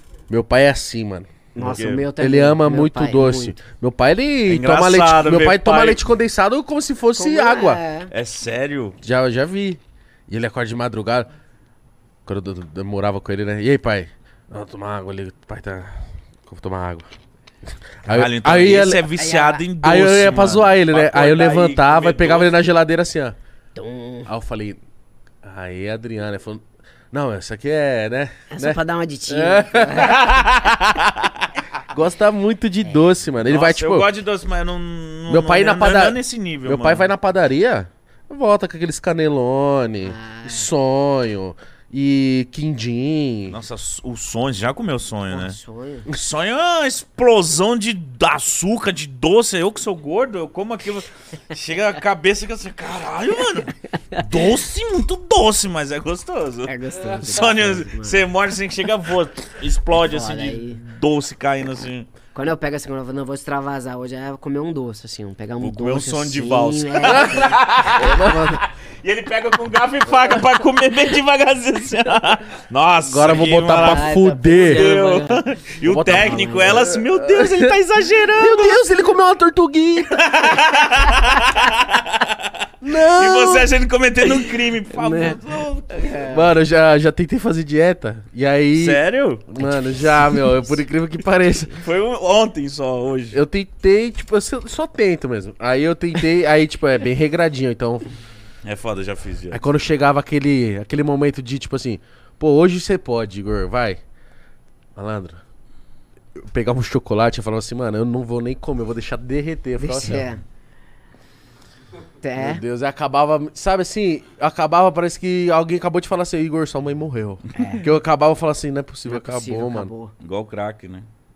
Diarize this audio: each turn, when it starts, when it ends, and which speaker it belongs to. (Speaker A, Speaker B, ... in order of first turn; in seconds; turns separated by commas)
Speaker A: 0.3-1.5, Speaker B: 1.5-2.1, Speaker C: 1.5-3.6, Speaker A: 2.1-7.8, Speaker B: 4.5-6.0, Speaker C: 7.1-8.1, Speaker B: 8.1-9.0, Speaker A: 9.0-11.3, Speaker A: 12.2-17.1, Speaker A: 18.1-19.1, Speaker B: 18.1-22.6, Speaker C: 19.1-19.6, Speaker A: 19.8-23.3, Speaker C: 23.7-24.3, Speaker A: 24.3-24.8, Speaker A: 25.4-30.3, Speaker C: 28.5-30.3, Speaker B: 29.9-31.5, Speaker A: 31.9-34.1, Speaker B: 33.4-37.1, Speaker A: 35.3-43.6, Speaker C: 40.0-40.7, Speaker B: 43.5-62.1, Speaker C: 45.3-46.1, Speaker C: 53.9-54.4, Speaker C: 56.6-58.2, Speaker C: 60.0-60.8, Speaker C: 62.3-68.6, Speaker B: 65.6-78.8, Speaker A: 67.0-68.5, Speaker A: 73.0-74.9, Speaker C: 73.7-76.9, Speaker A: 75.8-77.7, Speaker A: 78.3-80.3, Speaker B: 80.0-86.1, Speaker A: 82.8-83.7, Speaker C: 84.9-86.5, Speaker A: 86.3-91.8, Speaker B: 88.7-89.6, Speaker B: 91.8-93.4, Speaker A: 93.3-98.1, Speaker B: 98.6-99.6, Speaker A: 99.5-104.0, Speaker A: 105.0-105.4, Speaker A: 106.4-110.3, Speaker C: 109.8-110.4, Speaker C: 112.2-112.6, Speaker A: 112.4-119.9, Speaker C: 117.5-117.9, Speaker C: 119.0-120.1, Speaker B: 120.2-121.0